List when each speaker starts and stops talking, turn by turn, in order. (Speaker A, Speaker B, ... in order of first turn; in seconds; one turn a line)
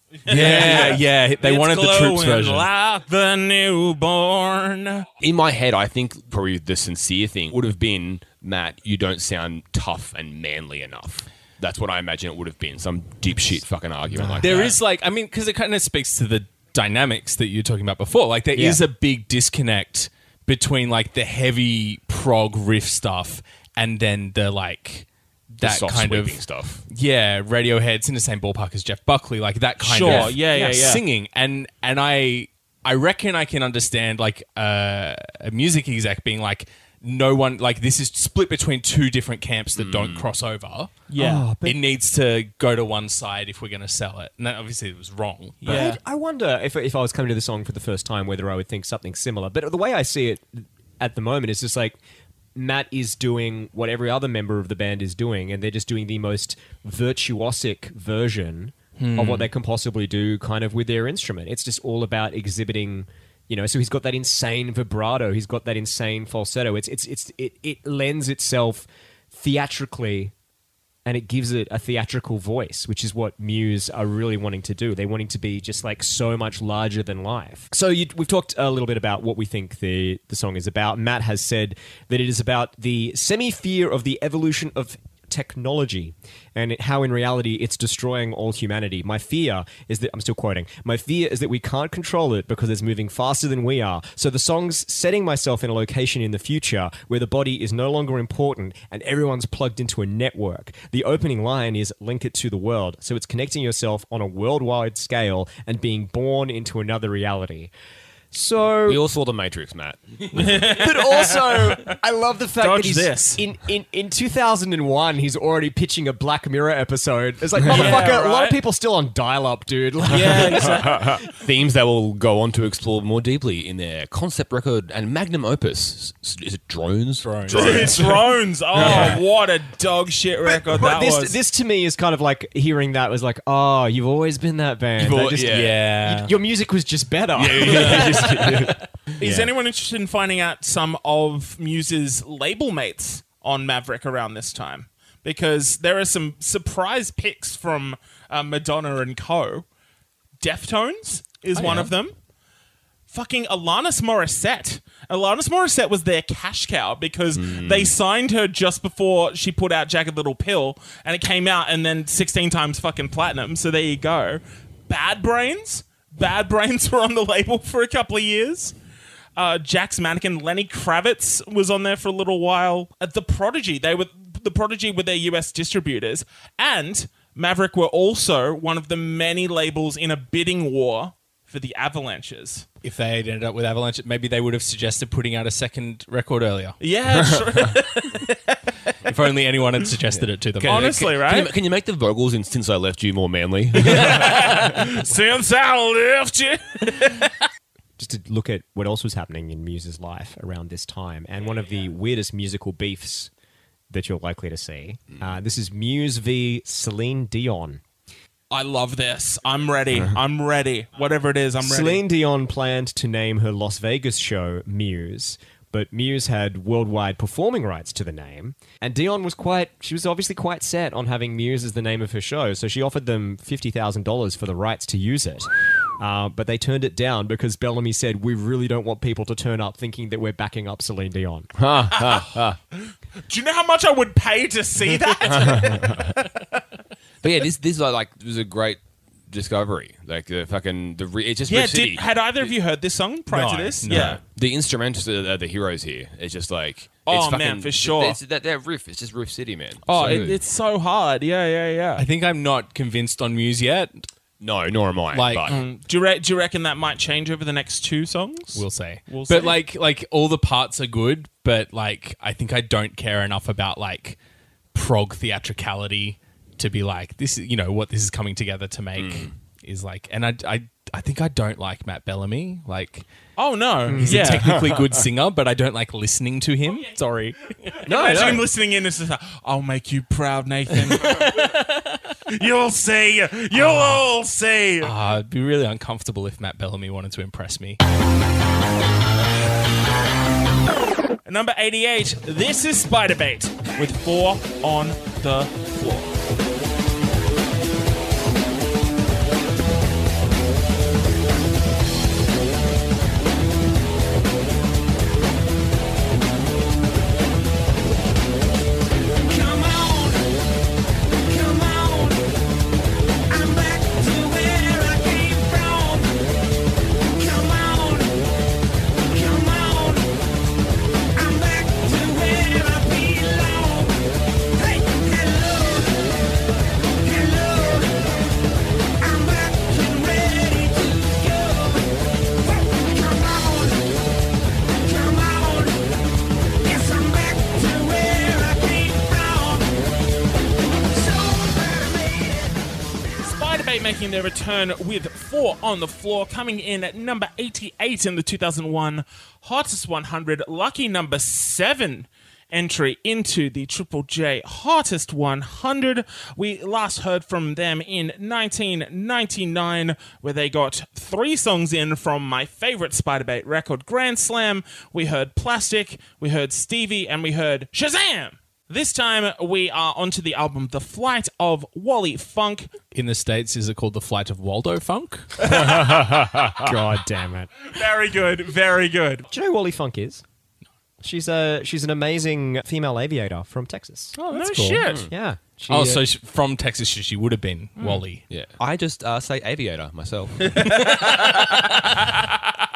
Speaker A: 0.2-5.1
Speaker B: 0.3-2.7
Speaker C: 5.2-14.7
Speaker D: 14.1-14.6
Speaker B: 14.4-40.9
Speaker D: 18.5-18.8
Speaker C: 25.6-26.8
Speaker A: 29.8-31.0
Speaker D: 30.1-30.7
Speaker C: 39.7-40.3
Speaker A: 41.1-41.5
Speaker D: 41.2-41.8
Speaker B: 41.6-45.9
Speaker A: 45.6-46.0
Speaker D: 45.6-52.0
Speaker D: 52.5-70.3
Speaker B: 59.0-59.5
Speaker D: 71.0-107.7
Speaker D: 108.3-109.0
Speaker C: 108.8-110.6
Speaker A: 110.3-111.9
Speaker D: 110.5-121.2
Speaker A: 112.6-113.4
Speaker A: 117.6-118.6
Speaker A: 120.1-121.1
Speaker C: 121.1-129.2
Speaker B: 127.2-128.0
Speaker A: 127.5-131.4
Speaker D: 130.4-139.5
Speaker C: 135.0-135.9
Speaker B: 135.5-136.3
Speaker C: 137.3-138.8
Speaker A: 139.2-149.7
Speaker A: 150.4-152.1
Speaker B: 151.6-151.9
Speaker A: 153.1-168.7
Speaker C: 157.3-157.9
Speaker A: 169.3-182.7
Speaker B: 182.8-186.8
Speaker A: 186.8-188.6
Speaker B: 189.0-191.1
Speaker C: 190.5-194.6
Speaker A: 190.6-191.5
Speaker A: 193.8-197.3
Speaker D: 198.0-203.3
Speaker D: 203.9-207.8
Speaker A: 208.5-212.0
Speaker D: 211.6-231.5
Speaker C: 231.6-232.6
Speaker A: 233.3-236.2
Speaker D: 234.8-235.8
Speaker C: 235.2-236.1
Speaker C: 237.2-242.0
Speaker A: 241.5-244.2
Speaker D: 243.3-244.1
Speaker B: 243.8-244.2
Speaker C: 243.9-250.4
Speaker A: 247.1-248.2
Speaker A: 249.8-252.0
Speaker B: 250.0-250.3
Speaker B: 252.0-254.1
Speaker C: 254.4-255.6
Speaker B: 255.1-255.5
Speaker A: 255.5-259.6
Speaker B: 258.5-264.2
Speaker B: 264.7-273.1
Speaker C: 268.9-269.3
Speaker A: 273.4-274.5
Speaker D: 273.9-274.4
Speaker B: 273.9-278.3
Speaker A: 277.7-281.7
Speaker D: 277.9-278.5
Speaker B: 280.9-281.9
Speaker A: 282.3-284.9
Speaker B: 284.8-287.8
Speaker A: 291.2-296.1
Speaker E: 309.1-310.4
Speaker E: 311.1-312.4
Speaker E: 313.3-316.2
Speaker E: 317.1-318.2
Speaker E: 318.9-320.1
Speaker E: 321.1-326.4
Speaker E: 326.9-328.4
Speaker E: 329.0-333.9
Speaker E: 334.7-335.9
Speaker E: 336.6-339.8
Speaker E: 340.7-342.6
Speaker A: 343.2-372.7
Speaker B: 372.9-375.6
Speaker A: 375.4-376.6
Speaker D: 375.5-377.5
Speaker A: 377.7-379.3
Speaker D: 379.3-380.2
Speaker D: 381.0-384.1
Speaker B: 384.1-385.0
Speaker A: 384.3-385.0
Speaker D: 385.1-386.0
Speaker B: 385.7-388.2
Speaker C: 388.3-390.7
Speaker A: 390.5-391.5
Speaker B: 390.9-391.6